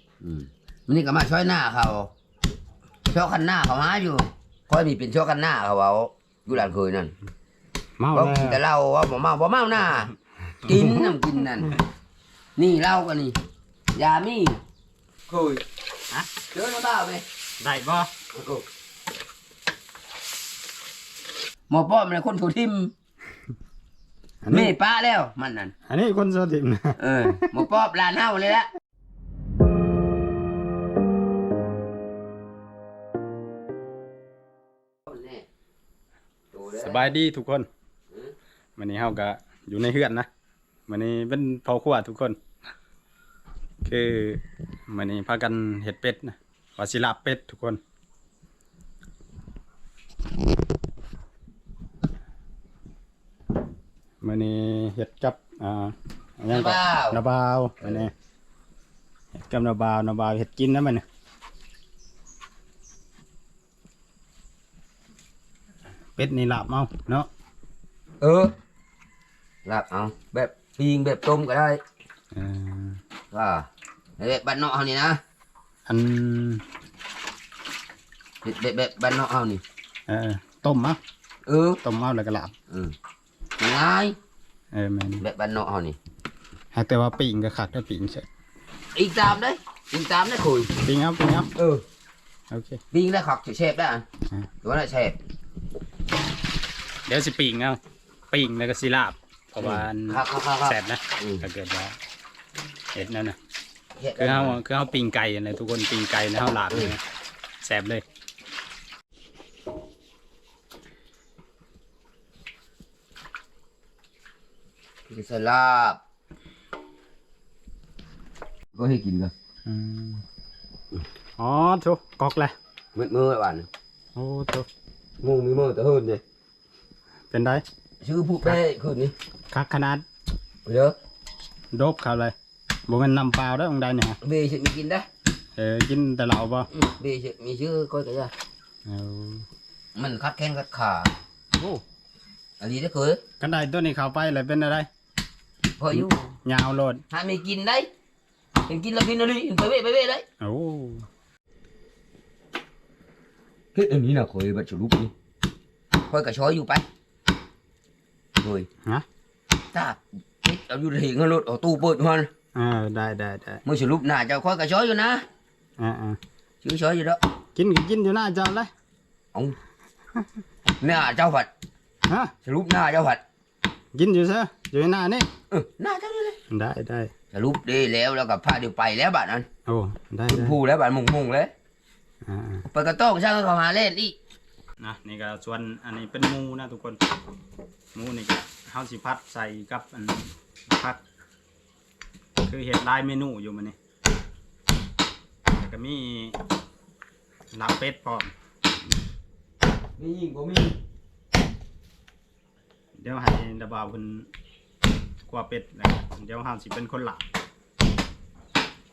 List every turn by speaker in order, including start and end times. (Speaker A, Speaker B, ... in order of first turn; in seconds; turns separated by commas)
Speaker A: 0.2-2.1, Speaker A: 3.1-7.1, Speaker B: 8.0-8.6, Speaker A: 8.1-10.1, Speaker B: 10.7-11.2, Speaker A: 10.7-11.8, Speaker A: 12.6-13.4, Speaker A: 13.9-14.6, Speaker A: 15.3-15.6, Speaker A: 16.5-17.2, Speaker B: 17.6-18.1, Speaker A: 18.3-18.7, Speaker A: 21.7-22.9, Speaker B: 24.4-24.8, Speaker A: 24.5-25.7, Speaker B: 25.9-27.6, Speaker A: 27.0-28.7, Speaker A: 35.1-35.5, Speaker A: 36.5-37.1, Speaker B: 36.8-37.7, Speaker B: 38.8-40.3, Speaker B: 40.9-42.4, Speaker B: 43.9-47.8, Speaker B: 54.2-58.1, Speaker A: 56.5-57.2, Speaker B: 59.4-61.0, Speaker B: 66.2-67.3, Speaker A: 68.2-68.5, Speaker A: 69.7-71.8, Speaker B: 72.3-73.0, Speaker A: 73.3-73.7, Speaker A: 74.2-75.2, Speaker B: 75.9-76.6, Speaker A: 78.4-79.6, Speaker B: 80.1-81.0, Speaker A: 81.5-81.8, Speaker B: 81.8-82.5, Speaker A: 83.6-84.2, Speaker B: 84.7-85.2, Speaker A: 85.2-86.0, Speaker B: 86.7-88.3, Speaker A: 89.0-90.8, Speaker B: 90.8-91.5, Speaker A: 91.5-91.8, Speaker B: 92.5-92.8, Speaker A: 92.9-94.0, Speaker A: 94.6-95.2, Speaker B: 97.1-97.8, Speaker B: 98.3-102.0, Speaker A: 99.6-101.4, Speaker B: 102.9-103.4, Speaker A: 104.0-104.6, Speaker B: 104.2-107.0, Speaker B: 107.6-108.0, Speaker A: 115.1-116.0, Speaker A: 118.7-119.3, Speaker B: 119.7-120.2, Speaker B: 121.4-122.5, Speaker A: 123.0-123.7, Speaker B: 124.2-124.7, Speaker A: 125.2-126.2, Speaker B: 127.3-127.6, Speaker A: 128.0-129.2, Speaker B: 129.5-130.1, Speaker A: 130.7-131.0, Speaker B: 131.7-132.3, Speaker B: 132.9-134.2, Speaker A: 134.2-135.1, Speaker B: 135.6-136.7, Speaker A: 136.7-138.3, Speaker B: 138.9-139.5, Speaker A: 139.9-141.1, Speaker B: 141.6-141.8, Speaker A: 142.6-143.2, Speaker B: 143.4-144.9, Speaker A: 145.8-146.3, Speaker B: 145.9-147.0, Speaker A: 147.1-147.9, Speaker A: 148.7-150.2, Speaker B: 150.4-151.1, Speaker A: 153.8-155.1, Speaker A: 156.1-156.9, Speaker A: 158.4-158.7, Speaker A: 159.7-162.3, Speaker B: 162.6-163.6, Speaker A: 163.7-165.2, Speaker B: 165.8-166.2, Speaker A: 166.6-167.2, Speaker B: 167.6-168.7, Speaker A: 170.8-171.5, Speaker B: 172.1-172.3, Speaker A: 172.4-173.2, Speaker B: 173.9-175.3, Speaker A: 175.5-176.4, Speaker B: 176.5-177.1, Speaker A: 177.3-179.5, Speaker B: 179.7-180.6, Speaker A: 180.3-181.5, Speaker B: 182.2-182.7, Speaker A: 182.7-184.2, Speaker B: 184.8-187.0, Speaker B: 187.9-191.0, Speaker B: 192.4-193.8, Speaker B: 195.5-196.4, Speaker B: 197.5-198.3, Speaker A: 200.0-200.8, Speaker B: 203.0-204.3, Speaker B: 205.3-207.2